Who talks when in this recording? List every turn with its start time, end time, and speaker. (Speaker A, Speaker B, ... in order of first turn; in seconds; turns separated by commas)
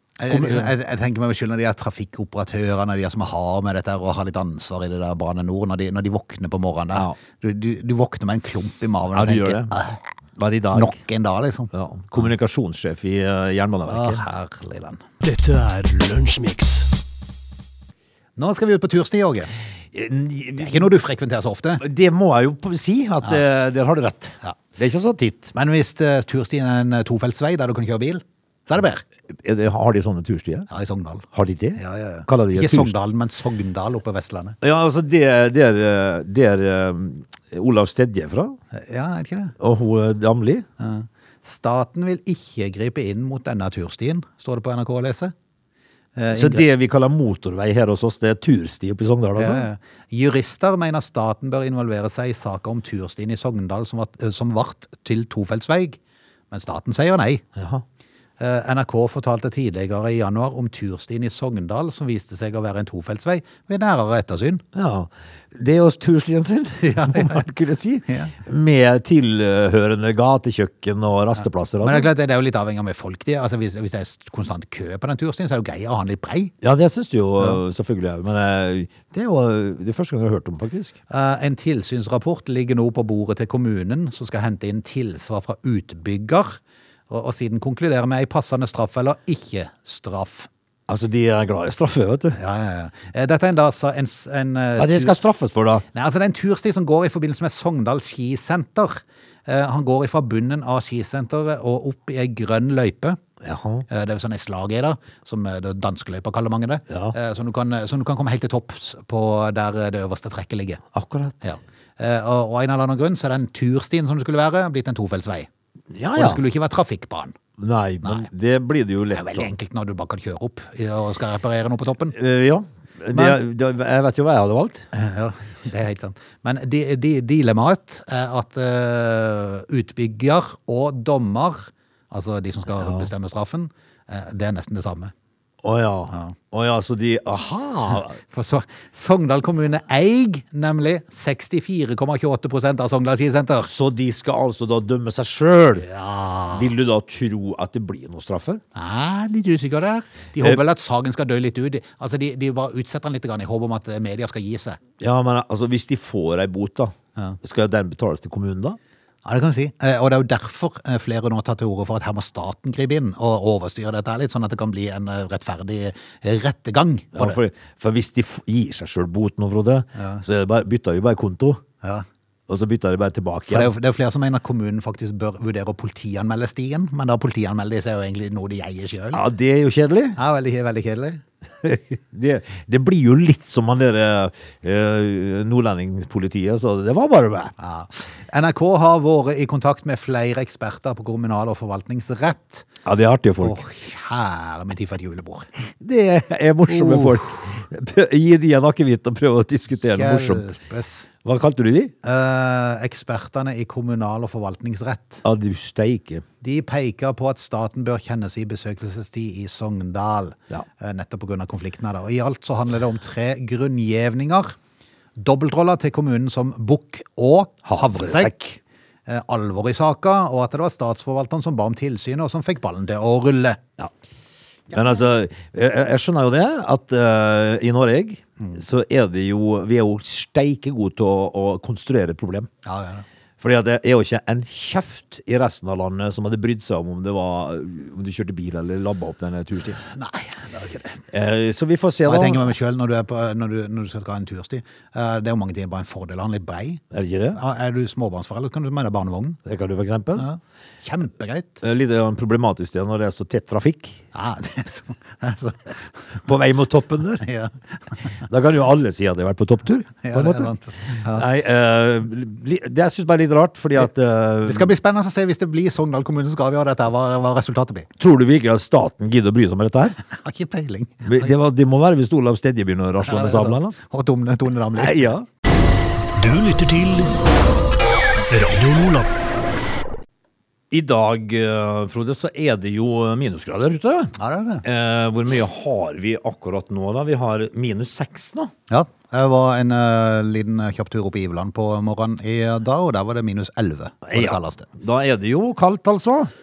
Speaker A: 0.2-10.0, Speaker B: 0.3-0.7, Speaker B: 9.1-9.8, Speaker B: 10.4-11.0, Speaker A: 10.7-12.3, Speaker B: 11.7-14.2, Speaker A: 13.9-15.0, Speaker C: 15.2-16.9, Speaker A: 18.4-19.5, Speaker B: 19.9-20.9, Speaker A: 20.6-21.8, Speaker B: 21.8-25.5, Speaker A: 25.5-29.0, Speaker B: 29.4-30.7, Speaker A: 30.7-34.6, Speaker B: 31.3-32.9, Speaker B: 34.6-38.6, Speaker A: 38.7-39.5, Speaker B: 39.6-40.7, Speaker A: 40.8-45.3, Speaker A: 46.2-46.6, Speaker B: 46.3-49.6, Speaker A: 49.4-56.0, Speaker A: 56.5-57.4, Speaker B: 57.6-57.8, Speaker A: 58.4-64.6, Speaker B: 64.7-72.1, Speaker A: 66.8-67.5, Speaker A: 68.1-68.3, Speaker A: 71.8-76.5, Speaker B: 76.6-81.0, Speaker A: 81.1-90.5, Speaker B: 90.9-92.4, Speaker A: 92.3-95.2, Speaker B: 94.8-95.8, Speaker A: 95.9-103.2, Speaker B: 103.4-103.9, Speaker A: 103.9-110.8, Speaker B: 106.9-107.2, Speaker B: 110.9-111.4, Speaker A: 111.4-115.5, Speaker B: 115.9-116.4, Speaker A: 116.2-117.4, Speaker B: 117.6-119.5, Speaker A: 119.1-122.2, Speaker B: 122.2-124.8, Speaker A: 123.1-123.4, Speaker A: 124.9-135.1, Speaker B: 132.8-133.1, Speaker B: 135.6-138.2, Speaker A: 138.2-143.7, Speaker B: 143.7-145.9, Speaker A: 145.8-146.7, Speaker B: 146.5-148.6, Speaker A: 148.8-154.8, Speaker B: 155.0-158.8, Speaker A: 159.2-167.4, Speaker B: 167.2-171.6, Speaker A: 170.0-170.2, Speaker B: 172.5-173.7, Speaker A: 173.5-179.2, Speaker B: 179.1-180.2, Speaker A: 180.2-181.2, Speaker B: 181.6-187.5, Speaker A: 187.6-192.7, Speaker B: 192.8-193.6, Speaker A: 193.4-195.5, Speaker B: 195.8-200.5, Speaker A: 196.7-197.2, Speaker A: 199.9-201.1, Speaker B: 201.2-201.9, Speaker A: 202.0-205.2, Speaker B: 205.2-206.2, Speaker A: 206.4-214.6, Speaker A: 215.2-223.6, Speaker B: 217.7-218.4, Speaker B: 224.7-232.5, Speaker A: 232.7-233.1, Speaker B: 233.4-239.8, Speaker A: 239.8-241.0, Speaker B: 241.1-242.6, Speaker A: 242.1-246.8, Speaker B: 246.9-247.4, Speaker A: 247.3-249.4, Speaker B: 249.5-250.3, Speaker A: 250.2-251.6, Speaker B: 251.6-254.0, Speaker A: 254.1-255.8, Speaker B: 256.3-257.2, Speaker A: 257.2-257.5, Speaker B: 258.3-264.7, Speaker A: 260.0-261.2, Speaker A: 264.4-267.9, Speaker B: 268.0-270.0, Speaker A: 270.1-271.3, Speaker B: 271.1-273.8, Speaker A: 273.0-275.1, Speaker B: 274.8-275.2, Speaker C: 276.2-277.2, Speaker C: 278.3-279.1, Speaker B: 280.7-288.5, Speaker A: 284.2-284.6, Speaker A: 288.7-294.7, Speaker B: 294.1-296.3